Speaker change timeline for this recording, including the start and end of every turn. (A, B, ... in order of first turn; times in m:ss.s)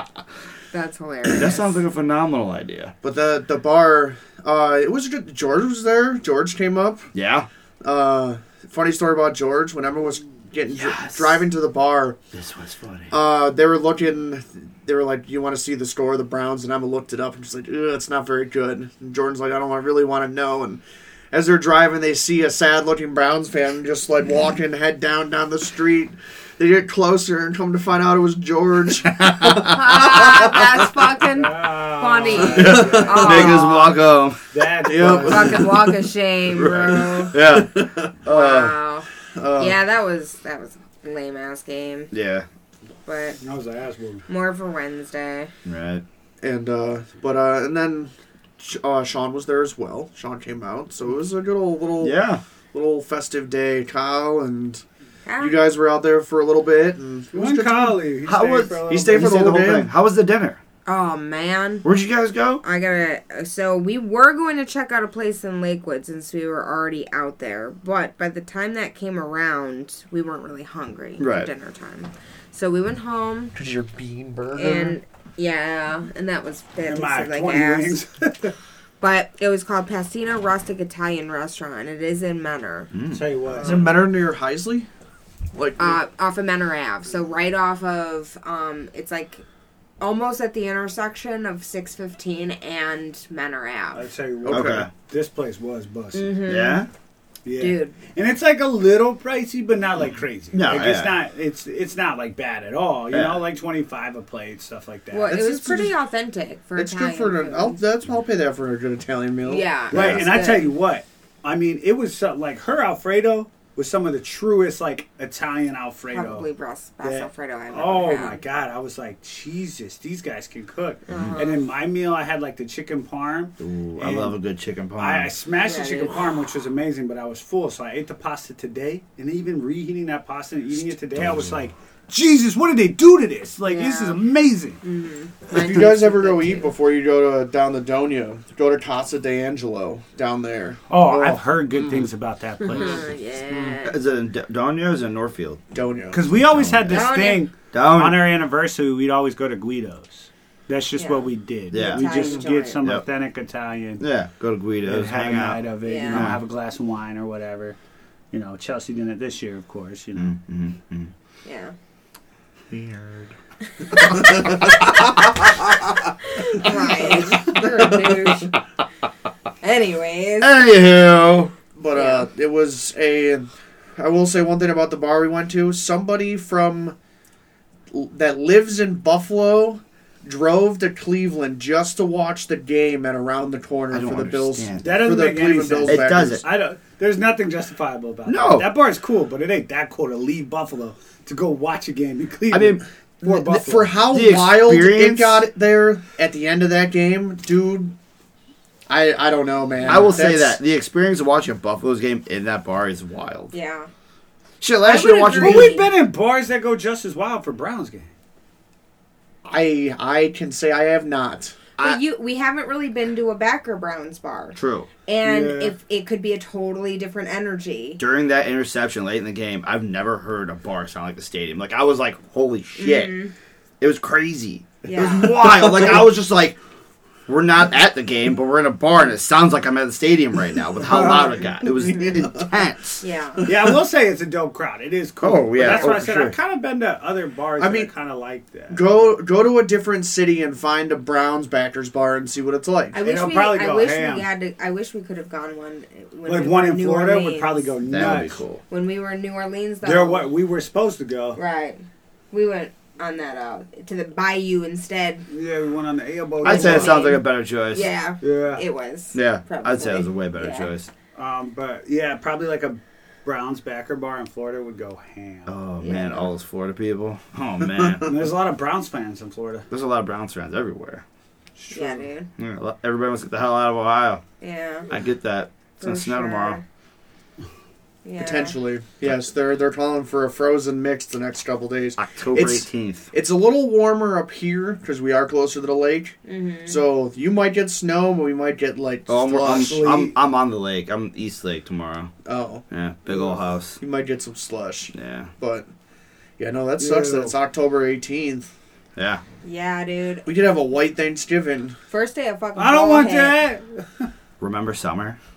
0:00.7-0:01.8 A
0:01.4-0:02.9 B
0:03.0-0:07.1 C
0:07.1-0:07.5 B
0:07.8-0:12.2 C
0:10.7-0:11.4 B
0:12.3-0:13.1 B
0:13.1-0:30.9 C
0:29.2-0:29.7 B
0:29.6-0:34.0 A
0:31.4-0:33.6 D
0:32.4-0:33.4 C
0:32.6-0:34.4 B
0:34.5-0:35.7 D
0:34.8-0:35.7 C
0:35.3-0:37.4 A
0:36.5-0:38.8 B
0:36.6-0:38.2 C
0:38.3-0:39.1 A
0:39.3-0:39.8 C
0:39.6-0:42.1 A
0:42.1-0:42.5 B
0:43.1-0:43.4 A
0:43.4-0:44.2 D
0:44.3-0:45.5 A
0:45.6-0:46.0 B
0:46.4-0:52.2 C
0:52.0-0:52.4 B
0:52.7-0:54.8 C
0:55.3-0:55.6 A
0:55.4-0:58.0 C
0:57.3-0:59.3 D
0:58.3-1:00.6 B
0:58.9-0:59.9 C
1:00.9-1:01.8 A
1:01.8-1:02.6 B
1:02.6-1:13.6 A
1:11.2-1:11.5 B
1:13.6-1:15.0 C
1:14.6-1:18.0 A
1:16.9-1:18.6 D
1:19.0-1:22.9 A
1:22.9-1:23.2 B
1:23.1-1:24.0 D
1:23.6-1:24.9 C
1:25.5-1:26.0 C
1:25.8-1:29.4 A
1:30.0-1:34.1 A
1:34.0-1:36.3 D
1:34.4-1:34.9 C
1:34.5-1:34.9 B
1:36.1-1:36.8 A
1:36.5-1:36.9 B
1:37.4-1:45.3 D
1:37.6-1:38.0 A
1:40.5-1:41.2 B
1:43.1-1:43.4 B
1:45.1-1:47.8 A
1:45.3-1:45.9 C
1:46.8-1:49.7 C
1:49.5-1:50.8 A
1:49.9-1:50.2 B
1:49.9-1:56.5 D
1:56.1-1:58.4 A
1:57.0-2:04.4 D
2:01.1-2:01.6 A
2:01.1-2:01.4 B
2:03.6-2:05.3 B
2:05.0-2:14.8 D
2:05.6-2:06.2 A
2:11.2-2:11.7 B
2:13.7-2:14.2 A
2:14.8-2:16.7 A
2:15.5-2:22.0 C
2:20.9-2:23.1 D
2:22.7-2:24.0 A
2:23.8-2:25.6 B
2:25.7-2:26.2 C
2:26.1-2:34.0 D
2:26.3-2:27.0 B
2:26.9-2:27.5 A
2:27.7-2:28.2 B
2:31.0-2:32.8 A
2:31.7-2:33.0 B
2:34.0-2:36.4 B
2:34.8-2:37.8 D
2:35.8-2:36.3 A
2:38.3-2:40.3 D
2:40.2-2:41.1 B
2:41.4-2:41.7 A
2:42.7-2:43.3 C
2:44.0-2:44.8 C
2:46.3-2:48.6 A
2:47.6-2:48.0 C
2:49.6-2:50.6 A
2:50.4-2:51.5 B
2:51.8-2:57.0 C
2:51.9-2:52.3 A
2:57.9-3:06.4 C
3:03.9-3:05.0 B
3:04.8-3:14.0 D
3:05.8-3:06.4 B
3:08.3-3:08.7 B
3:12.5-3:12.8 B
3:13.2-3:18.0 C
3:14.1-3:15.4 B
3:18.9-3:20.6 C
3:19.8-3:20.1 D
3:19.9-3:23.5 B
3:23.5-3:23.9 A
3:24.6-3:25.8 B
3:24.9-3:25.9 A
3:25.2-3:28.1 D
3:29.4-3:31.6 C
3:31.8-3:38.0 A
3:34.6-3:34.9 B
3:35.2-3:35.7 D
3:38.0-3:43.1 B
3:42.8-3:43.3 A
3:43.8-3:46.6 B
3:44.8-3:45.4 A
3:47.3-3:53.0 B
3:53.0-3:53.4 A
3:53.4-3:59.1 D
3:55.2-3:56.4 B
3:55.7-3:56.0 C
3:57.6-3:57.9 C
3:58.7-4:03.0 C
4:02.9-4:07.7 A
4:03.0-4:04.3 D
4:06.3-4:08.4 D
4:07.9-4:08.6 B
4:08.7-4:10.3 A
4:09.8-4:11.4 D
4:11.4-4:15.3 A
4:15.3-4:17.1 D
4:16.4-4:17.9 B
4:16.5-4:20.7 A
4:18.2-4:18.6 D
4:19.1-4:20.9 B
4:21.2-4:25.5 D
4:25.5-4:28.1 B
4:25.8-4:26.3 A
4:27.8-4:28.1 C
4:28.0-4:29.7 D
4:29.7-4:31.0 B
4:31.6-4:32.1 D
4:31.7-4:32.3 A
4:32.4-4:34.2 B
4:34.4-4:34.9 A
4:34.9-4:36.6 B
4:35.8-4:36.6 A
4:38.0-4:38.6 A
4:38.2-4:50.1 C
4:42.0-4:43.1 B
4:46.3-4:46.8 A
4:49.1-4:52.1 B
4:49.6-4:50.1 D
4:52.2-4:55.7 C
4:52.7-4:53.8 B
4:55.0-4:55.3 B
4:56.4-4:58.5 C
4:56.8-4:57.4 D
4:59.0-4:59.2 B
4:59.4-5:00.3 A
5:00.2-5:01.8 C
5:01.9-5:03.4 A
5:02.6-5:04.1 D
5:04.4-5:05.2 B